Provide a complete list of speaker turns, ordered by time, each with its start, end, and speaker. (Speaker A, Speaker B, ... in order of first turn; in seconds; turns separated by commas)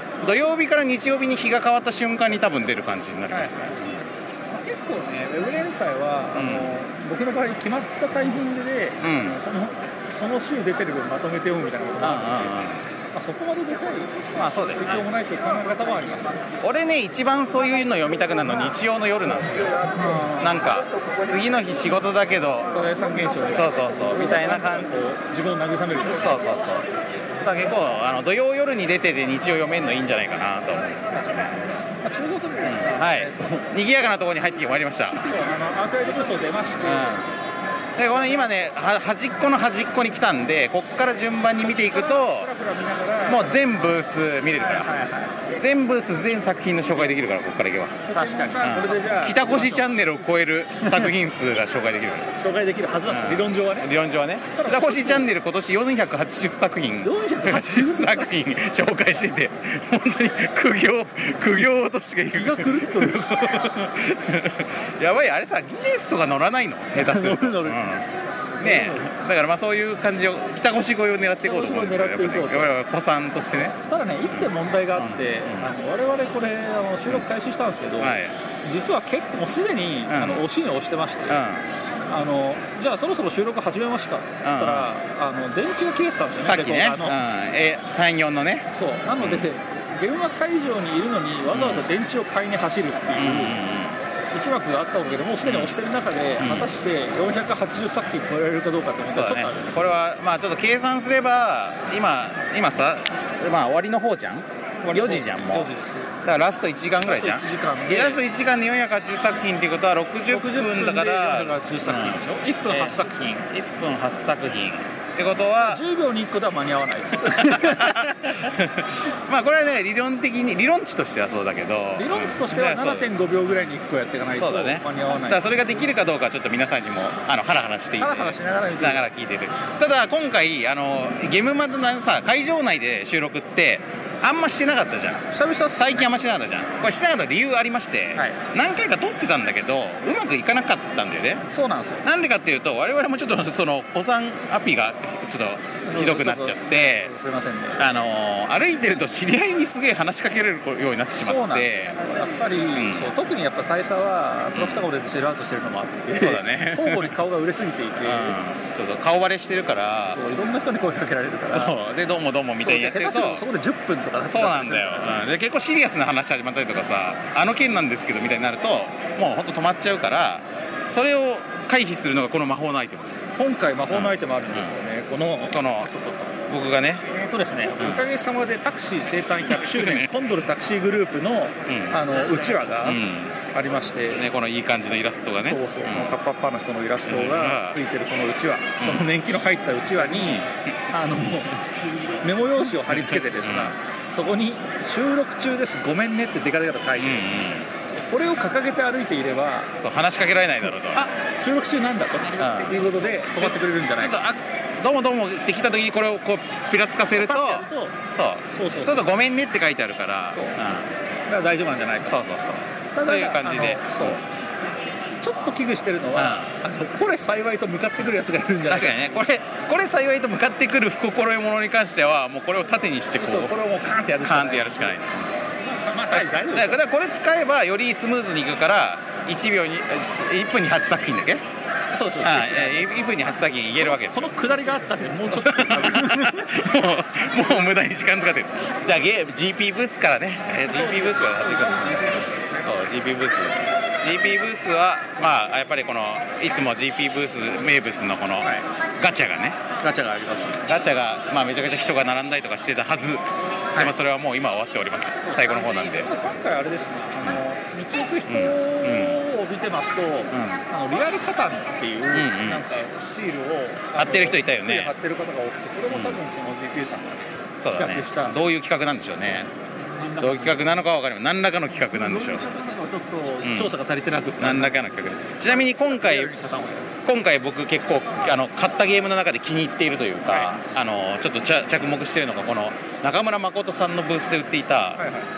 Speaker A: 0.2-4.0, Speaker B: 3.3-3.5, Speaker B: 4.5-12.5, Speaker A: 6.3-6.7, Speaker A: 9.0-9.4, Speaker A: 12.0-12.9, Speaker B: 13.1-16.4, Speaker A: 14.3-15.0, Speaker A: 16.6-19.8, Speaker B: 19.9-20.7, Speaker A: 20.4-24.9, Speaker B: 22.7-26.4, Speaker A: 26.1-31.7, Speaker B: 32.0-33.4, Speaker A: 32.6-35.2, Speaker B: 35.2-37.2, Speaker A: 36.8-37.3, Speaker A: 38.0-42.5, Speaker B: 41.8-43.9, Speaker A: 43.2-52.3, Speaker B: 44.8-45.4, Speaker B: 48.1-49.9, Speaker B: 50.8-51.1, Speaker B: 52.4-53.9, Speaker A: 53.0-68.1, Speaker B: 54.5-55.3, Speaker B: 57.0-58.3, Speaker B: 62.3-63.3, Speaker B: 66.9-68.0, Speaker B: 68.6-69.1, Speaker A: 68.6-75.7, Speaker B: 71.4-72.7, Speaker B: 73.9-81.4, Speaker A: 78.0-78.3, Speaker A: 80.0-80.5, Speaker A: 81.3-81.7, Speaker B: 82.1-87.2, Speaker A: 84.4-84.9, Speaker A: 86.4-89.5, Speaker B: 88.7-93.6, Speaker A: 91.5-91.9, Speaker A: 93.1-94.0, Speaker B: 94.3-99.9, Speaker A: 95.4-95.8, Speaker A: 96.4-96.7, Speaker A: 99.1-105.7, Speaker B: 104.8-106.1, Speaker A: 106.2-115.8, Speaker B: 107.0-108.2, Speaker B: 110.3-113.5, Speaker B: 115.6-118.5, Speaker A: 117.3-123.7, Speaker B: 122.0-125.5, Speaker A: 124.3-141.4, Speaker B: 128.0-129.1, Speaker B: 135.3-136.1, Speaker B: 141.5-142.0, Speaker A: 142.0-147.1, Speaker B: 145.8-147.8, Speaker A: 147.8-151.9, Speaker B: 151.2-158.4, Speaker A: 152.7-153.1, Speaker A: 154.5-154.9, Speaker A: 156.1-157.1, Speaker A: 158.0-160.2, Speaker B: 160.1-161.7, Speaker A: 161.4-163.4, Speaker B: 162.6-165.2, Speaker A: 164.3-173.3, Speaker B: 173.3-176.4, Speaker A: 173.9-174.8, Speaker A: 175.5-175.9, Speaker A: 176.4-177.1, Speaker B: 177.1-184.2, Speaker A: 177.8-178.0, Speaker A: 179.4-180.1, Speaker A: 181.7-183.4, Speaker A: 184.1-186.1, Speaker B: 185.4-191.7, Speaker A: 187.0-187.8, Speaker A: 188.8-189.1, Speaker A: 190.0-190.7, Speaker B: 192.2-197.3, Speaker A: 192.6-193.7, Speaker A: 197.0-197.7, Speaker B: 198.1-199.7, Speaker A: 199.8-201.1, Speaker B: 200.6-204.2, Speaker A: 202.4-210.9, Speaker B: 207.1-208.0, Speaker B: 208.5-209.1, Speaker B: 211.3-212.2, Speaker A: 212.1-214.2, Speaker B: 212.9-214.2, Speaker B: 215.2-219.0, Speaker A: 216.1-216.5, Speaker A: 218.7-223.6, Speaker B: 223.2-224.9, Speaker A: 224.2-225.4, Speaker B: 225.6-226.8, Speaker A: 226.1-231.4, Speaker B: 231.9-233.1, Speaker A: 232.2-234.3, Speaker B: 233.8-236.6, Speaker A: 235.3-249.6, Speaker B: 240.7-242.8, Speaker B: 248.4-248.7, Speaker B: 249.8-250.6, Speaker A: 250.6-256.1, Speaker B: 255.2-267.2, Speaker A: 258.3-259.2, Speaker A: 260.3-260.6, Speaker A: 262.1-262.6, Speaker A: 263.9-264.9, Speaker A: 265.9-266.2, Speaker A: 267.6-269.5, Speaker B: 267.7-268.4, Speaker B: 269.8-270.8, Speaker A: 270.2-272.4, Speaker B: 271.8-274.8, Speaker A: 273.4-273.7, Speaker A: 274.4-276.3, Speaker B: 275.4-276.9, Speaker A: 277.0-285.0, Speaker B: 280.3-280.6, Speaker B: 285.0-285.3